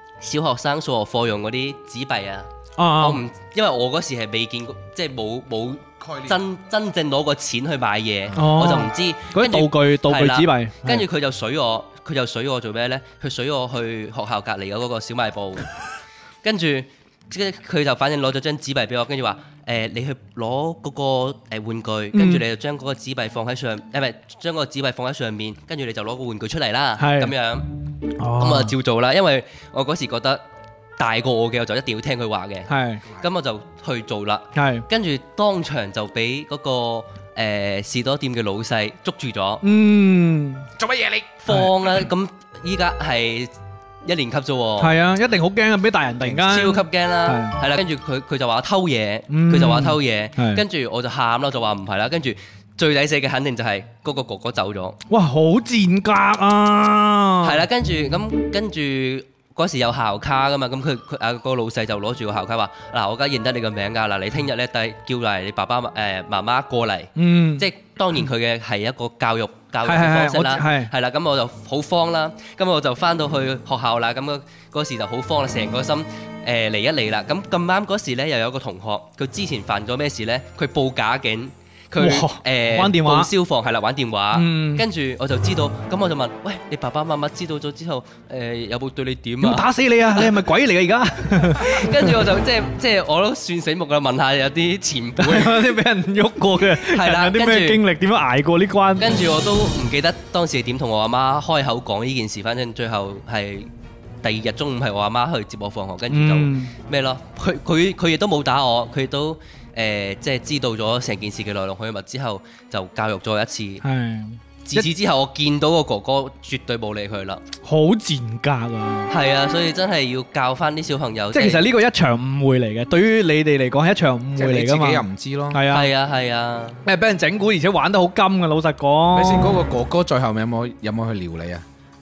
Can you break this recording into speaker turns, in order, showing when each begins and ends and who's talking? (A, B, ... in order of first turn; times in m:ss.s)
0:00.2-0:15.7 A
0:02.8-0:03.2 B
0:06.0-0:06.4 C
0:08.3-0:11.0 B
0:16.4-0:27.7 A
0:22.1-0:22.4 B
0:27.0-0:27.3 B
0:28.2-0:28.7 B
0:28.4-0:30.4 A
0:31.0-0:39.6 A
0:32.7-0:33.0 B
0:34.6-0:34.8 B
0:39.6-0:40.7 B
0:40.8-0:41.4 C
0:41.4-0:43.5 A
0:44.0-0:44.9 A
0:44.8-0:47.6 B
0:46.3-0:55.0 A
0:49.3-0:50.6 B
0:55.1-0:57.6 B
0:57.4-1:30.5 A
1:07.2-1:07.7 B
1:09.8-1:10.9 B
1:22.0-1:23.3 B
1:24.3-1:24.8 B
1:29.4-1:32.1 B
1:31.3-1:35.8 A
1:35.2-1:39.2 B
1:36.6-1:37.8 A
1:39.0-1:43.7 A
1:44.2-1:53.8 A
1:46.1-1:46.7 B
1:53.8-1:54.9 B
1:54.6-1:57.4 A
1:57.6-1:59.1 B
1:59.1-2:01.7 A
2:01.3-2:05.9 B
2:04.4-2:05.6 C
2:05.7-2:06.8 A
2:06.8-2:09.6 B
2:09.1-2:11.6 C